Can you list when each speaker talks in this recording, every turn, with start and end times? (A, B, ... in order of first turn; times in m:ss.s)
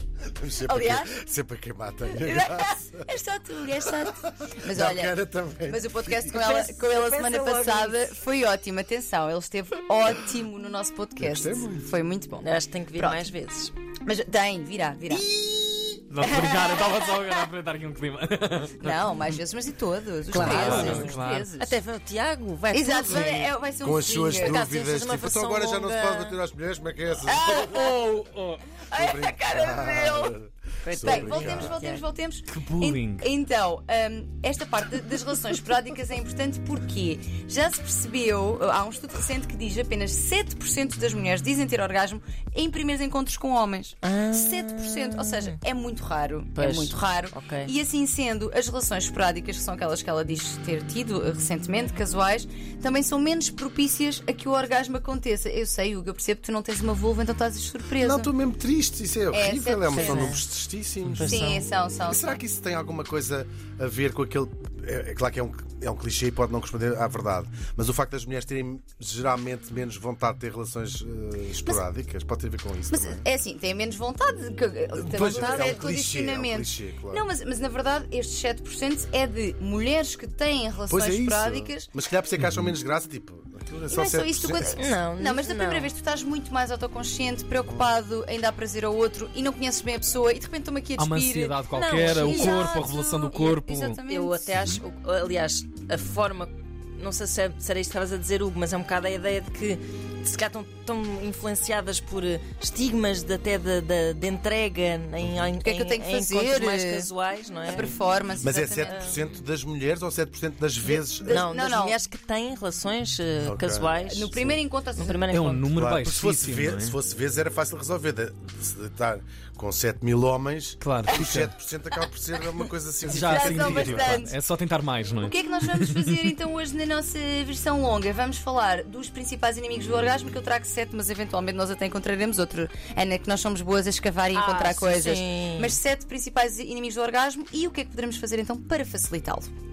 0:00.4-0:03.1 A
0:00.6-0:01.2 B
0:02.1-0:13.3 B
0:04.6-0:06.4 A
0:06.3-0:08.2 C
0:11.2-0:11.9 A
0:12.4-0:13.7 C
0:14.0-0:15.3 B
0:15.1-0:16.0 A
0:16.1-0:19.2 D
0:16.2-0:17.1 B
0:18.8-0:21.8 B
0:20.3-0:23.5 C
0:20.3-0:21.5 D
0:22.7-0:24.6 B
0:23.1-0:28.0 A
0:24.3-0:26.4 C
0:27.2-0:28.1 B
0:27.7-0:28.6 D
0:28.8-0:31.8 A
0:28.9-0:30.4 B
0:30.8-0:32.0 C
0:31.0-0:58.3 B
0:32.5-0:33.3 D
0:44.0-0:45.6 C
0:46.6-0:47.7 C
0:58.0-1:01.4 A
0:59.3-1:00.4 B
0:59.9-1:00.4 C
1:01.1-1:01.7 C
1:01.2-1:02.4 B
1:02.1-1:13.3 A
1:12.9-1:21.9 B
1:15.0-1:17.3 A
1:20.9-1:24.8 A
1:22.4-1:22.7 D
1:23.9-1:34.6 B
1:24.8-1:25.9 C
1:31.0-1:34.0 D
1:31.7-1:32.8 C
1:34.0-1:48.0 C
1:45.6-1:47.1 B
1:47.7-1:49.0 B
1:48.4-1:51.4 A
1:48.8-1:49.3 C
1:50.8-1:52.0 B
1:51.3-1:55.6 C
1:53.4-1:53.9 A
1:54.1-1:55.6 B
1:55.3-1:57.0 D
1:55.8-2:04.2 A
2:00.8-2:01.5 D
2:03.1-2:06.2 D
2:03.1-2:04.4 B
2:05.2-2:19.5 B
2:14.3-2:15.8 C